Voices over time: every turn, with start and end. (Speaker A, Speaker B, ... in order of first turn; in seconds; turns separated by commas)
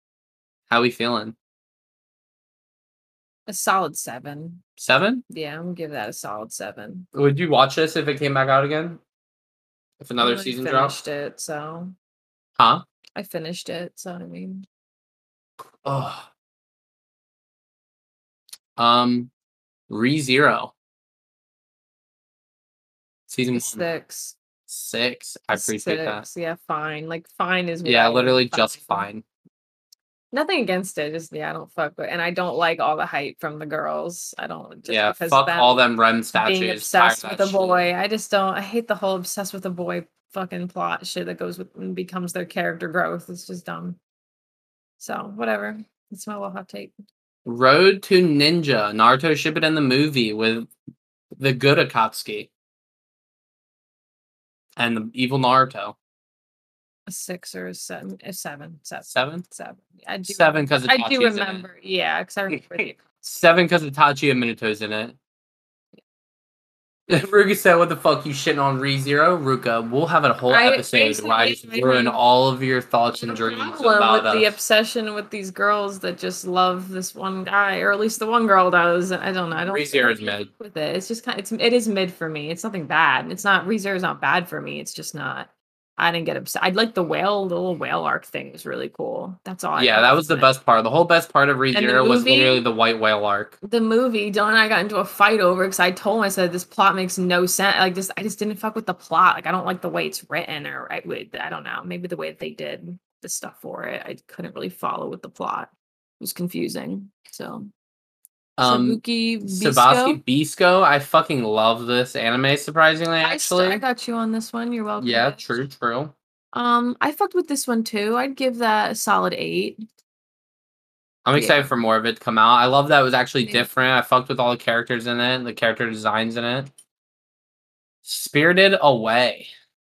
Speaker A: 0.7-1.3, Speaker B: 3.5-4.6, Speaker A: 4.8-5.2, Speaker B: 5.3-7.1, Speaker A: 7.1-9.0, Speaker A: 10.0-11.0, Speaker B: 10.2-11.9, Speaker A: 12.6-12.8, Speaker B: 13.2-14.7, Speaker A: 15.8-16.2, Speaker A: 18.8-19.3, Speaker A: 19.9-20.7, Speaker A: 23.3-23.8, Speaker B: 23.5-24.3, Speaker A: 24.7-26.2, Speaker B: 25.5-29.1, Speaker A: 27.8-29.2, Speaker B: 30.3-35.8, Speaker A: 34.9-37.9, Speaker B: 36.3-44.0, Speaker B: 45.0-46.9, Speaker A: 47.4-50.7, Speaker A: 51.4-52.5, Speaker A: 54.8-55.9, Speaker B: 57.1-63.3, Speaker A: 59.1-59.4, Speaker A: 60.3-61.6, Speaker A: 63.2-65.2, Speaker A: 67.1-74.5, Speaker B: 70.5-72.2, Speaker B: 73.2-90.5, Speaker A: 79.6-80.5, Speaker A: 89.8-93.6, Speaker B: 91.7-92.6, Speaker B: 93.6-107.7, Speaker A: 108.6-113.8, Speaker B: 108.6-110.2, Speaker B: 113.2-115.5, Speaker A: 115.0-116.1, Speaker B: 116.5-119.8, Speaker A: 121.2-126.7, Speaker B: 121.3-121.7, Speaker A: 128.0-129.5